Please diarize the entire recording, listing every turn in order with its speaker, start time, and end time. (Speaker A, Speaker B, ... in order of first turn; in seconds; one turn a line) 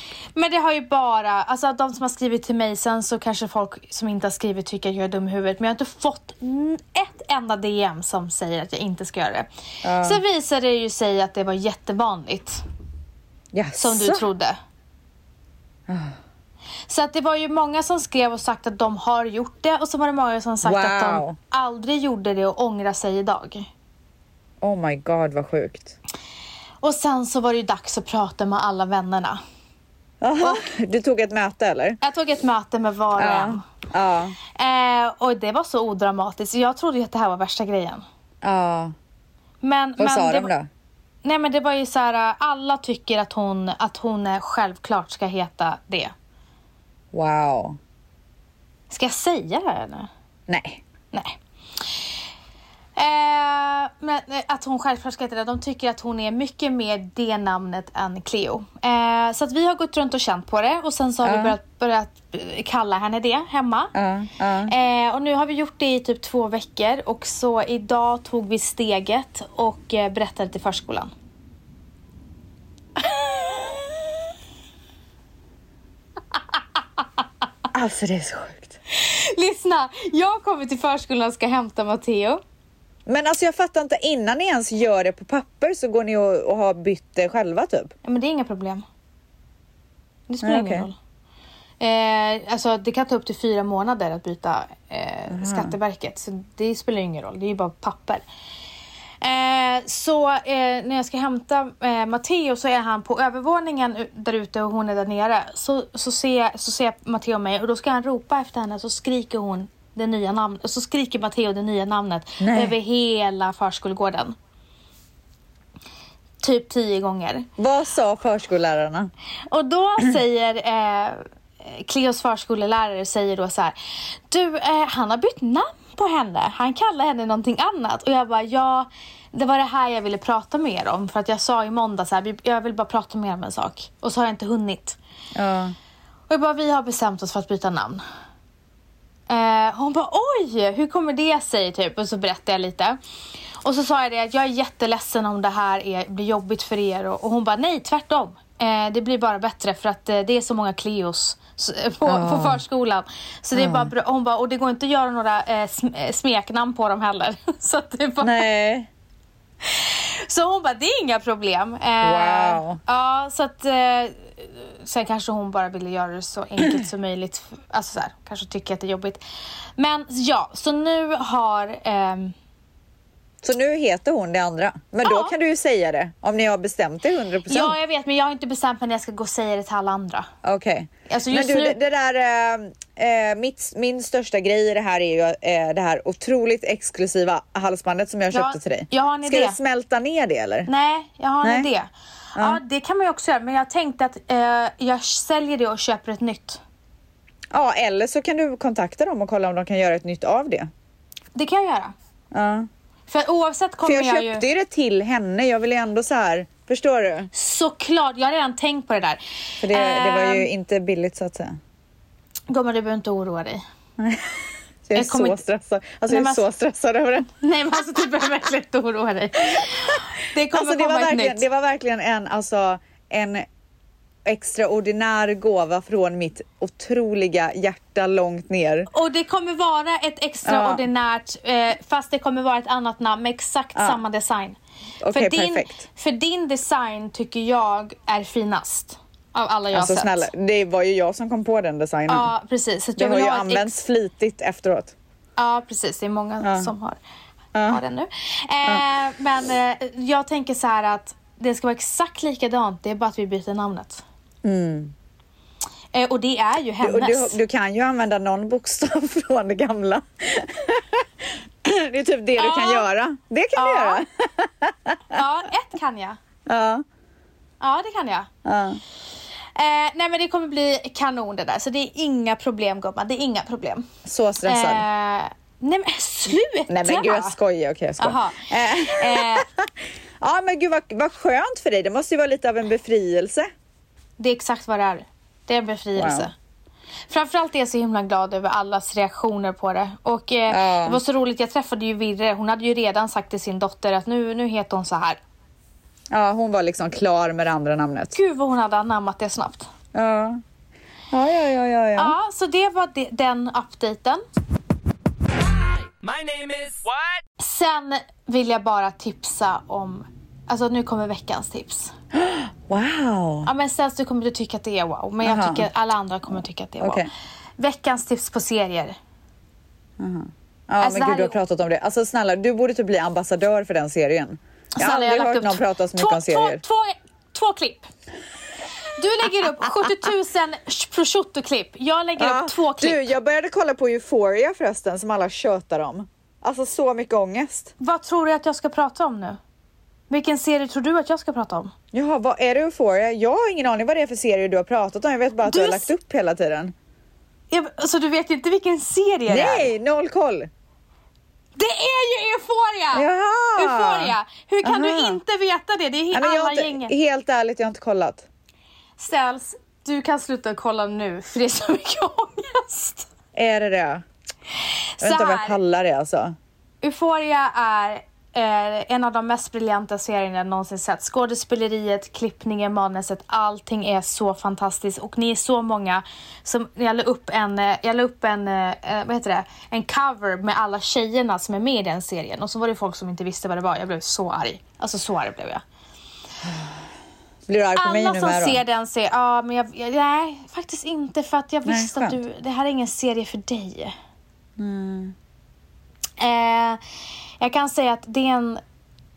Speaker A: 0.3-12.6
Speaker B: 9.8-10.2
Speaker B: 13.5-14.2
Speaker A: 13.8-14.6
Speaker B: 15.9-16.2
Speaker A: 16.9-23.7
Speaker B: 20.6-21.4
Speaker B: 24.6-26.0
Speaker A: 26.8-29.4
Speaker B: 30.2-32.0
Speaker A: 30.4-30.7
Speaker A: 32.0-33.6
Speaker B: 33.2-34.4
Speaker A: 34.5-38.0
Speaker B: 38.4-38.9
Speaker A: 39.6-40.5
Speaker B: 40.0-40.7
Speaker A: 41.2-46.1
Speaker B: 47.1-47.8
Speaker A: 48.9-50.1
Speaker B: 50.5-50.8
Speaker A: 51.1-51.9
Speaker A: 53.0-63.9
Speaker B: 61.2-61.6
Speaker B: 63.9-64.7
Speaker A: 64.7-71.1
Speaker A: 73.0-73.7
Speaker B: 77.7-78.8
Speaker A: 78.9-82.4
Speaker B: 83.1-87.9
Speaker A: 88.0-88.8
Speaker A: 90.3-91.0
Speaker B: 90.4-90.9
Speaker A: 91.8-98.2
Speaker B: 95.3-95.7
Speaker A: 99.2-114.4
Speaker B: 112.4-112.8
Speaker A: 116.4-117.5
Speaker B: 117.6-119.1
Speaker A: 119.5-123.8
Speaker A: 124.3-135.0
Speaker B: 135.3-135.8
Speaker A: 136.3-138.0
Speaker A: 139.3-143.0
Speaker A: 143.6-158.4
Speaker B: 152.1-152.6
Speaker B: 153.6-153.9
Speaker B: 158.2-158.9
Speaker A: 159.6-169.2
Speaker B: 162.0-162.8
Speaker A: 169.8-172.3
Speaker B: 173.4-177.8
Speaker A: 175.0-175.3
Speaker A: 177.5-180.3
Speaker B: 180.4-190.7
Speaker A: 181.1-181.8
Speaker A: 188.3-189.6
Speaker A: 190.7-196.6
Speaker B: 191.4-191.7
Speaker B: 192.4-192.6
Speaker B: 197.5-200.7
Speaker A: 201.3-201.9
Speaker B: 202.3-202.7
Speaker A: 203.1-204.4
Speaker B: 203.8-207.3
Speaker A: 207.3-210.5
Speaker B: 209.6-211.6
Speaker A: 212.5-213.6
Speaker B: 214.0-217.3
Speaker A: 214.9-215.4
Speaker A: 216.1-216.4
Speaker A: 217.4-221.4
Speaker B: 220.5-223.4
Speaker B: 224.2-228.9
Speaker A: 228.9-234.6
Speaker B: 230.4-230.8
Speaker B: 233.8-234.0
Speaker B: 235.0-235.8
Speaker A: 235.1-240.3
Speaker B: 239.7-242.3
Speaker A: 242.1-243.8
Speaker B: 243.0-244.9
Speaker A: 245.4-247.0
Speaker B: 246.4-246.7
Speaker B: 247.6-247.8
Speaker A: 247.7-254.0
Speaker B: 254.4-254.9
Speaker A: 255.9-257.4
Speaker B: 256.8-265.2
Speaker A: 262.4-262.9
Speaker A: 263.6-264.0
Speaker A: 265.1-266.2
Speaker B: 266.5-266.8
Speaker A: 267.6-268.3
Speaker B: 268.4-268.8
Speaker A: 269.6-273.9
Speaker B: 274.1-274.9
Speaker A: 274.4-277.4
Speaker B: 276.7-283.5
Speaker A: 278.0-279.5
Speaker A: 284.2-286.3
Speaker B: 286.0-286.3
Speaker A: 287.1-295.2
Speaker B: 290.5-291.0
Speaker B: 296.1-298.1
Speaker A: 298.1-299.7
Speaker B: 299.9-300.4
Speaker B: 301.1-302.1
Speaker A: 302.0-304.2
Speaker A: 307.4-311.9
Speaker B: 312.1-313.5
Speaker A: 313.4-317.1
Speaker B: 315.2-315.7
Speaker B: 316.8-317.1
Speaker A: 317.6-319.0
Speaker B: 320.0-326.6
Speaker A: 320.8-321.4
Speaker A: 324.8-327.9
Speaker A: 329.0-333.1
Speaker B: 332.2-337.7
Speaker A: 337.8-339.4
Speaker A: 340.1-341.7
Speaker B: 341.9-346.7
Speaker A: 345.4-345.9
Speaker A: 347.5-349.7
Speaker B: 349.3-350.5
Speaker A: 351.6-356.9
Speaker B: 352.9-355.2
Speaker B: 356.1-358.3
Speaker A: 359.0-363.1
Speaker B: 363.3-364.0
Speaker A: 365.0-365.6
Speaker B: 365.0-366.4
Speaker A: 366.8-385.6
Speaker B: 386.4-386.7
Speaker B: 387.5-388.6
Speaker A: 387.8-393.9
Speaker B: 391.6-392.2
Speaker B: 394.6-395.1
Speaker A: 396.2-396.8
Speaker A: 397.4-398.6